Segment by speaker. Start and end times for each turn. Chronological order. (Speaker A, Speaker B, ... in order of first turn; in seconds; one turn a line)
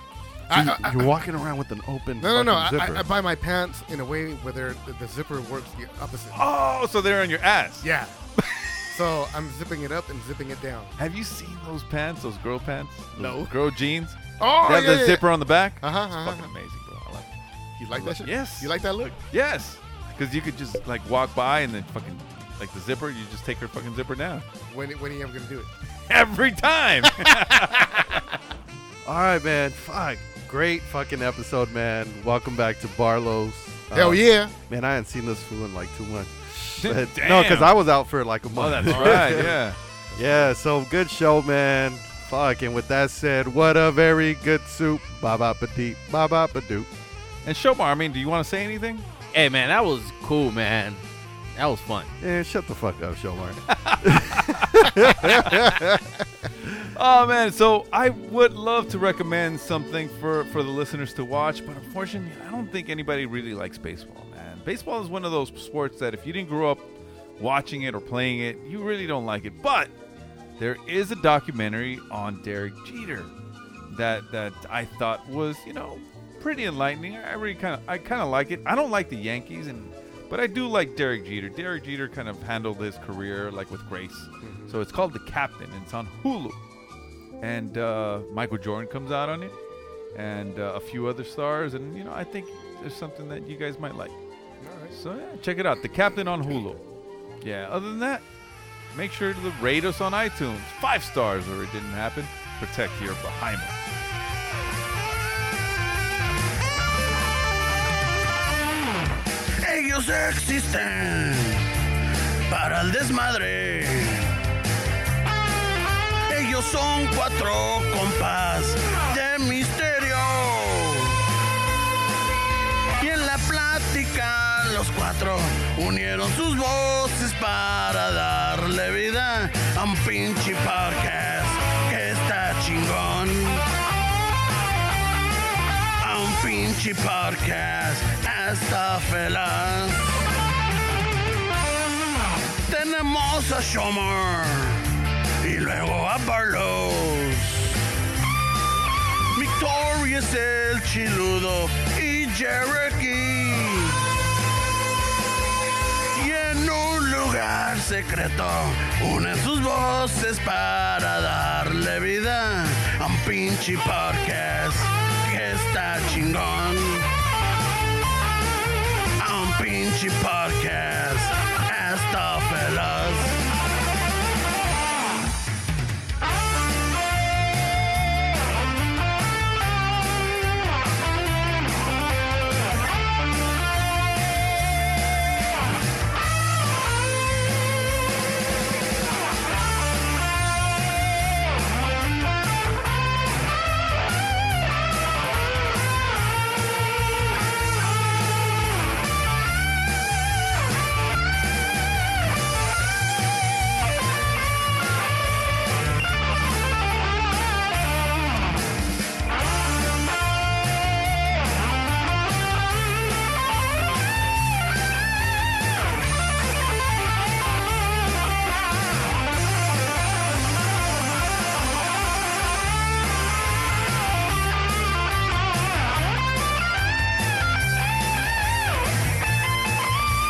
Speaker A: 0.5-1.1
Speaker B: 0.5-3.0
Speaker A: 2.2-6.4
Speaker C: 6.3-7.9
Speaker A: 7.8-8.1
Speaker C: 8.4-8.7
Speaker A: 8.9-10.9
Speaker C: 11.0-17.3
Speaker A: 13.2-13.5
Speaker A: 14.4-15.2
Speaker A: 15.8-16.5
Speaker A: 17.8-19.2
Speaker C: 17.9-18.7
Speaker C: 19.3-24.4
Speaker A: 24.7-25.7
Speaker C: 26.1-28.2
Speaker A: 27.2-27.5
Speaker B: 29.0-39.6
Speaker A: 33.9-34.5
Speaker C: 36.8-37.8
Speaker C: 38.5-39.8
Speaker A: 38.9-40.5
Speaker B: 40.1-46.9
Speaker C: 47.4-49.0
Speaker D: 49.3-51.0
Speaker D: 51.5-52.1
Speaker B: 52.2-56.9
Speaker C: 53.7-55.7
Speaker C: 56.8-66.8
Speaker C: 67.4-69.9
Speaker C: 70.6-73.3
Speaker C: 73.9-86.6
Speaker A: 84.4-84.7
Speaker C: 87.4-89.5
Speaker C: 90.1-94.2
Speaker A: 94.6-95.0
Speaker C: 94.9-96.8
Speaker C: 97.4-98.2
Speaker C: 98.9-103.8
Speaker E: 109.6-111.8
Speaker E: 112.5-114.4
Speaker E: 116.3-121.2
Speaker E: 123.0-133.7
Speaker E: 136.0-140.2
Speaker E: 142.6-147.7
Speaker E: 149.3-154.1
Speaker E: 156.1-167.1
Speaker E: 169.2-173.4